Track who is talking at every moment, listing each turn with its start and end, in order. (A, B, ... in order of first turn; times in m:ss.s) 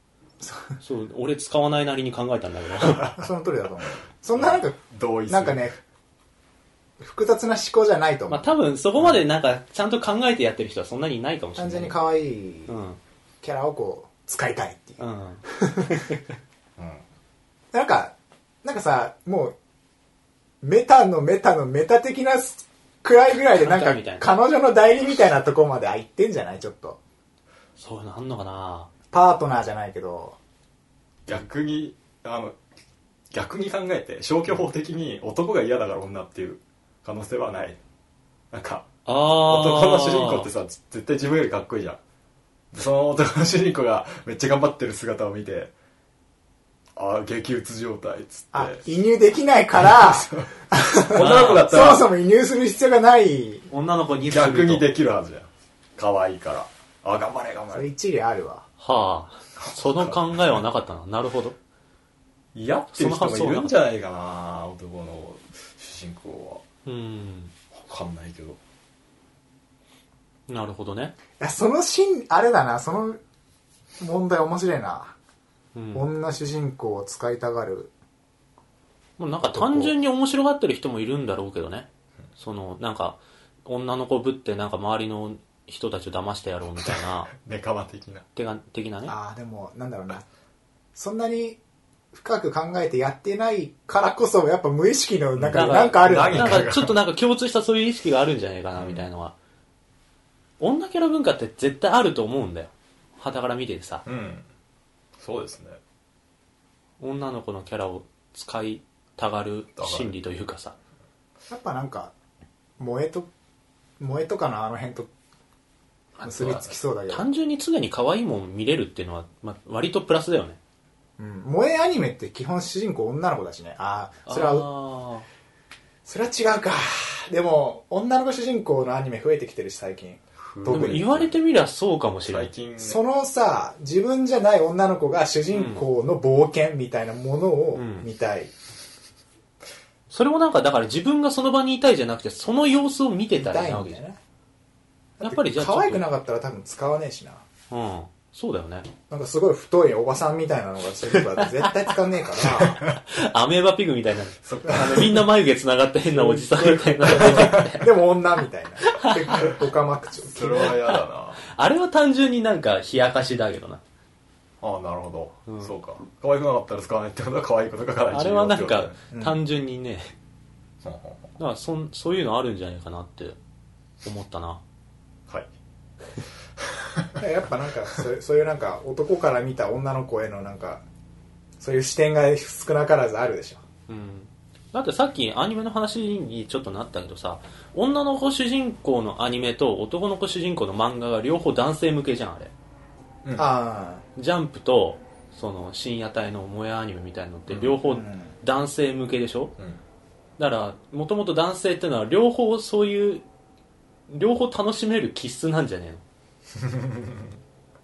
0:00.4-0:00.8 A
0:00.8-0:03.1 B
0:03.2-0:05.8 A
0:04.4-0:05.7 C
0:07.0-0:08.5 A
0:08.3-0:12.0 B
0:11.6-0:12.7 A
0:12.7-0:13.0 B
0:13.4-0:16.0 A
0:15.0-0:16.2 B
0:17.7-0:19.6 A
0:20.6-0:27.0 A
0:23.6-0:24.3 B
0:27.8-0:28.9 B
0:29.1-0:30.4 A
0:31.3-0:32.6 C
0:33.3-0:37.8 C
0:38.5-0:38.9 C
0:39.1-0:40.5 B
0:39.4-0:42.0 C
0:42.7-0:45.7 C
0:47.0-0:48.8 C
0:48.5-0:53.7 A
0:49.8-0:50.5 C
0:51.0-0:52.1 C
0:51.2-0:51.7 B
0:53.7-0:54.9 B
0:54.3-0:57.9 C
0:57.7-0:58.7 A
0:58.8-1:01.6 B
0:59.6-1:00.2 C
1:02.6-1:06.6 C
1:02.9-1:03.8 B
1:06.9-1:07.5 B
1:07.7-1:08.6 C
1:10.5-1:11.2 B
1:11.4-1:13.2 A
1:14.0-1:15.2 A
1:15.8-1:16.0 B
1:15.9-1:17.9 A
1:19.2-1:27.3 B
1:19.4-1:19.9 A
1:26.8-1:28.2 C
1:28.4-1:29.2 B
1:29.1-1:30.3 A
1:31.0-1:31.6 A
1:32.1-1:36.7 A
1:35.4-1:37.0 C
1:35.5-1:39.4 B
1:38.8-1:39.0 C
1:40.6-1:44.0 B
1:44.1-1:44.4 C
1:45.2-1:45.8 C
1:47.0-1:50.8 B
1:49.8-1:50.1 C
1:51.5-1:52.1 A
1:52.8-1:53.3 A
1:54.0-1:55.1 A
1:56.2-1:57.3 A
1:56.3-1:56.7 C
1:57.1-2:00.6 B
2:01.2-2:04.7 A
2:04.3-2:05.3 B
2:06.0-2:11.2 A
2:10.4-2:11.3 C
2:10.7-2:12.5 B
2:12.3-2:13.0 C
2:12.8-2:18.5 A
2:15.5-2:15.8 B
2:17.7-2:18.1 B
2:20.1-2:24.0 B
2:23.4-2:24.2 A
2:25.2-2:27.4 A
2:25.2-2:26.0 B
2:27.7-2:28.9 B
2:29.1-2:32.8 A
2:31.1-2:31.7 B
2:33.0-2:37.9 B
2:34.4-2:35.3 C
2:36.1-2:40.8 A
2:37.1-2:37.7 C
2:38.8-2:39.5 B
2:40.3-2:41.4 C
2:40.9-2:43.8 B
2:44.6-2:49.0 C
2:45.5-2:45.7 B
2:48.1-2:50.1 B
2:50.8-2:51.3 C
2:51.4-2:53.4 B
2:54.0-2:54.6 B
2:56.8-2:57.2 C
2:57.2-3:00.8 A
3:01.6-3:03.6 A
3:03.9-3:12.5 B
3:13.4-3:14.0 A
3:14.2-3:19.5 B
3:17.5-3:17.8 C
3:17.8-3:18.4 A
3:20.4-3:23.2 B
3:24.1-3:26.0 B
3:26.6-3:27.4 C